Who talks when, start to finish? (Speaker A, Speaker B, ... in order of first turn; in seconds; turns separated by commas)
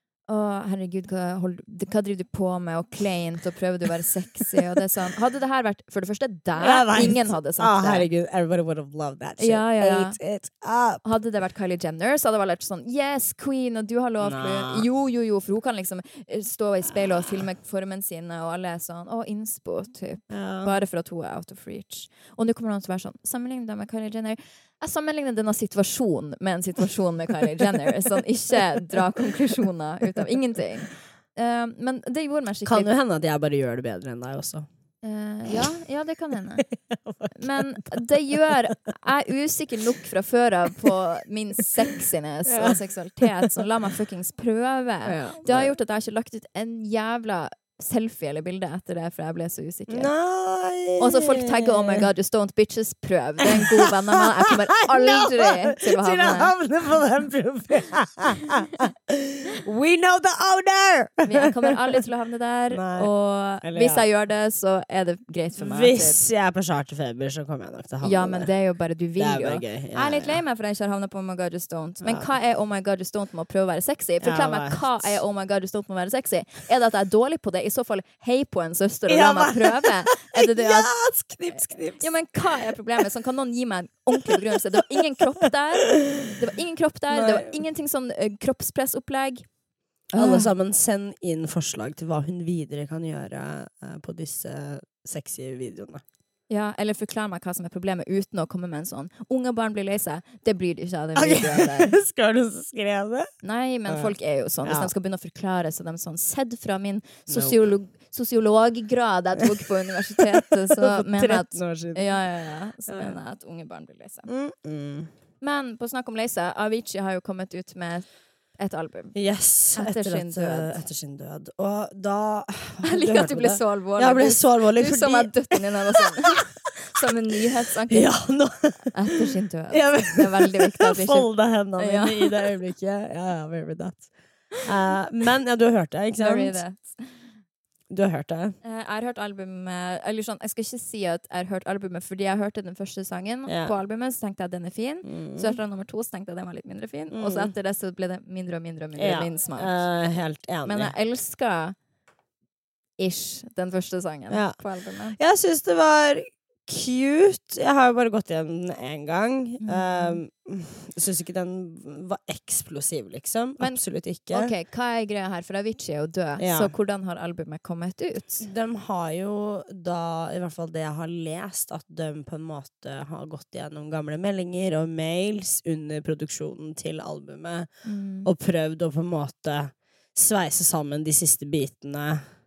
Speaker A: 0.3-8.1, Speaker B: 6.6-11.0, Speaker A: 9.4-10.2, Speaker A: 11.0-32.9, Speaker B: 14.2-14.8, Speaker B: 20.3-20.7, Speaker B: 32.6-34.7, Speaker A: 35.0-36.6, Speaker B: 36.6-38.7, Speaker A: 37.3-50.1, Speaker B: 42.5-43.5, Speaker B: 45.0-45.7, Speaker B: 49.9-52.0, Speaker A: 51.0-56.5, Speaker B: 53.4-61.7, Speaker A: 61.2-66.2, Speaker B: 62.7-63.1, Speaker B: 63.6-64.0, Speaker B: 65.6-68.5, Speaker A: 68.0-80.9, Speaker B: 69.2-70.4, Speaker B: 72.0-72.3, Speaker B: 74.2-75.2, Speaker B: 79.1-82.7, Speaker A: 81.5-89.4, Speaker B: 84.2-86.4, Speaker B: 87.1-87.6, Speaker A: 90.1-90.5, Speaker B: 90.1-96.0, Speaker A: 96.5-102.0, Speaker B: 101.2-103.3, Speaker A: 103.4-114.3, Speaker B: 103.9-104.1, Speaker B: 104.6-104.9, Speaker B: 107.3-107.6, Speaker B: 109.4-112.2, Speaker B: 112.9-113.2, Speaker B: 114.3-115.1, Speaker A: 115.4-119.1, Speaker B: 119.1-126.1, Speaker A: 119.7-120.8, Speaker A: 122.8-128.2, Speaker B: 127.9-129.2, Speaker A: 128.9-132.5, Speaker B: 129.7-134.1, Speaker B: 134.6-136.6, Speaker A: 136.2-137.2, Speaker B: 137.9-138.6, Speaker A: 138.6-149.8, Speaker B: 143.5-143.7, Speaker B: 145.0-145.6, Speaker B: 147.1-147.5, Speaker B: 149.0-150.9, Speaker A: 150.6-151.8, Speaker A: 153.0-155.2, Speaker B: 154.3-154.6, Speaker B: 155.2-164.5, Speaker A: 159.6-160.2, Speaker A: 163.6-168.5, Speaker B: 166.4-166.7, Speaker B: 168.4-177.7, Speaker A: 177.8-178.3, Speaker B: 178.2-182.2